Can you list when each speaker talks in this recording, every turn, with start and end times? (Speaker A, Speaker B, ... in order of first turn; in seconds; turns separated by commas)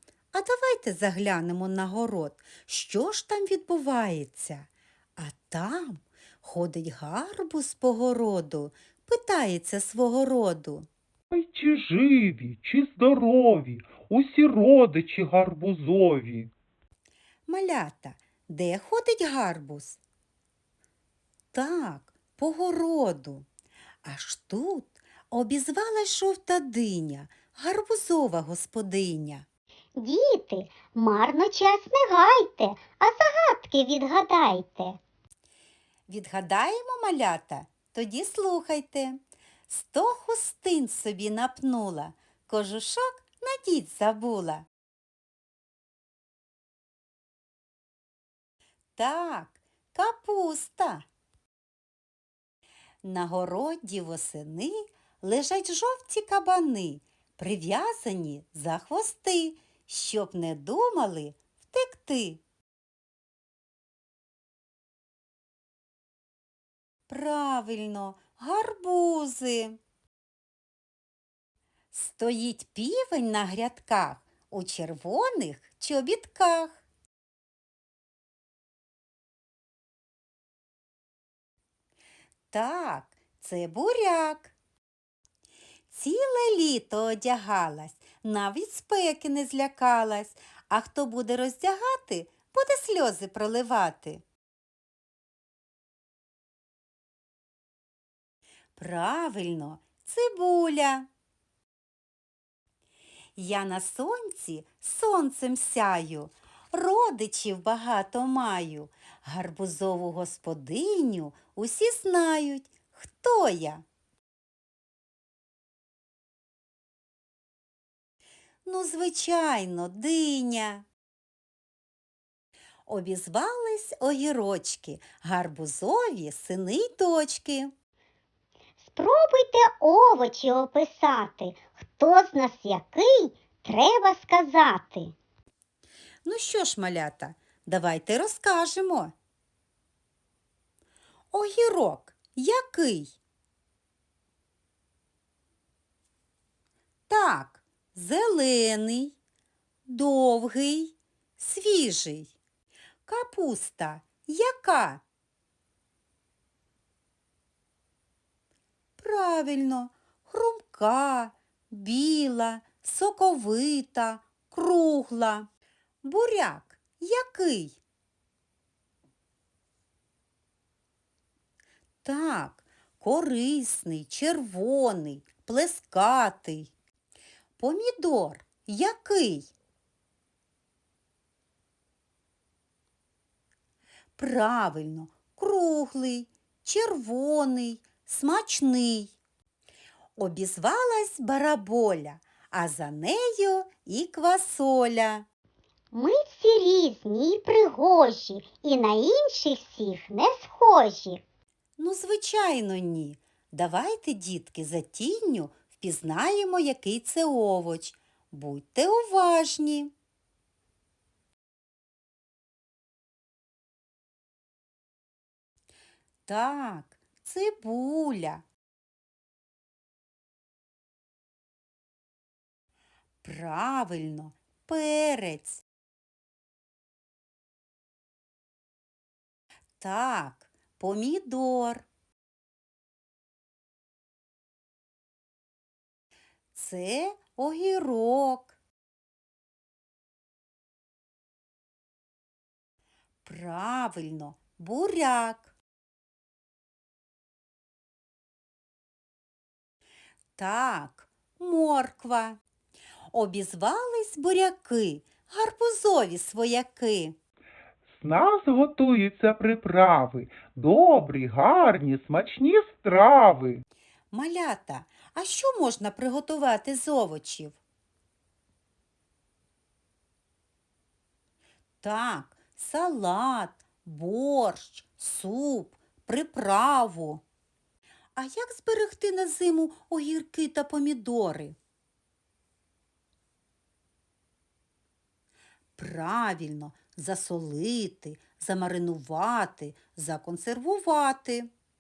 Speaker A: 0.3-10.9, Speaker B: 11.3-16.5, Speaker A: 17.5-20.0, Speaker A: 21.5-23.5, Speaker A: 24.1-29.4, Speaker C: 30.0-35.0, Speaker A: 36.1-44.6, Speaker A: 49.0-51.1, Speaker A: 53.0-62.4, Speaker A: 67.1-69.8, Speaker A: 71.9-76.8, Speaker A: 82.5-84.5, Speaker A: 85.9-94.2, Speaker A: 98.8-101.1, Speaker A: 103.4-113.8, Speaker A: 118.7-120.9, Speaker A: 122.9-127.7, Speaker C: 128.8-135.1, Speaker A: 136.2-139.1, Speaker A: 141.3-143.2, Speaker A: 147.1-149.2, Speaker A: 149.9-152.3, Speaker A: 153.1-155.0, Speaker A: 159.0-165.5, Speaker A: 166.0-167.8, Speaker A: 172.0-176.7, Speaker A: 177.6-179.5, Speaker A: 184.2-189.2, Speaker A: 190.2-195.3, Speaker C: 195.9-201.2, Speaker A: 201.8-209.9, Speaker A: 216.3-218.4, Speaker A: 223.2-225.6, Speaker A: 229.8-231.9, Speaker A: 236.5-238.6, Speaker A: 243.2-245.5, Speaker A: 250.4-252.4, Speaker A: 253.1-257.2, Speaker B: 257.9-263.6, Speaker A: 264.1-267.6, Speaker A: 271.8-277.2, Speaker A: 278.1-281.6, Speaker A: 285.8-291.5